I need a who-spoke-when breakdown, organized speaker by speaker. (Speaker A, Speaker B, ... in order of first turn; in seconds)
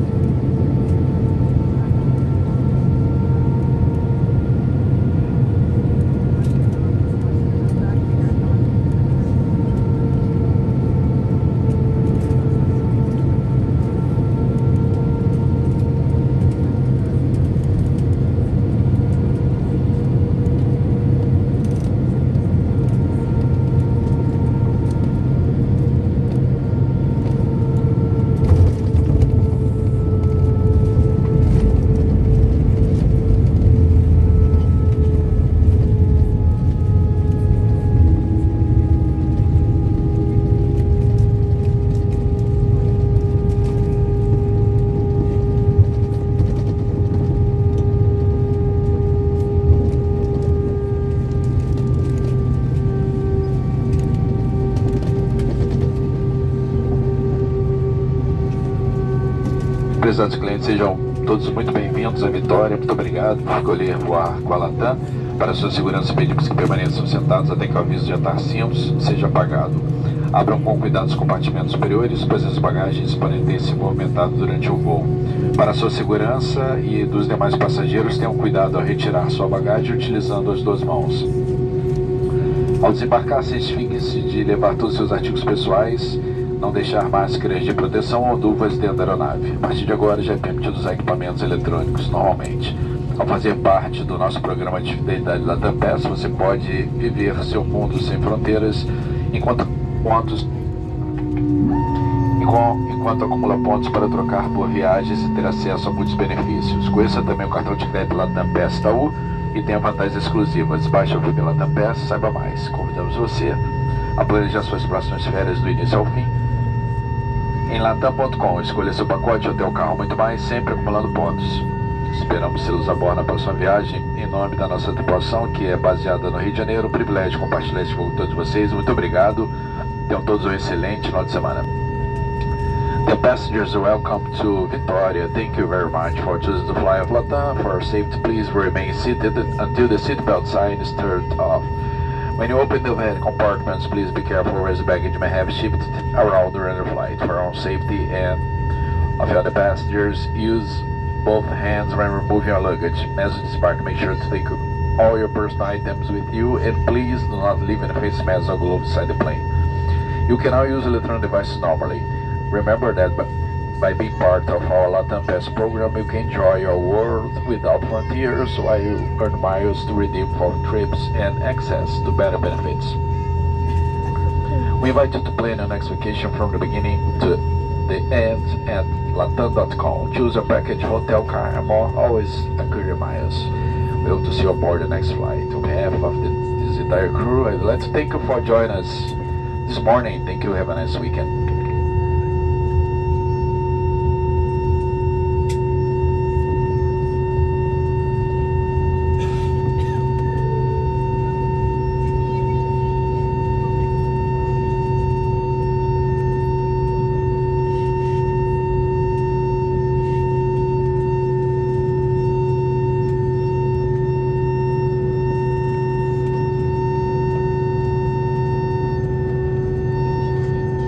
Speaker A: 59.9-81.3, 82.8-100.5, 102.4-113.6, 114.2-116.3, 117.7-129.5, 130.1-131.7, 133.0-141.7, 142.4-148.4, 149.2-159.4, 160.3-173.0, 174.8-189.1, 189.7-191.3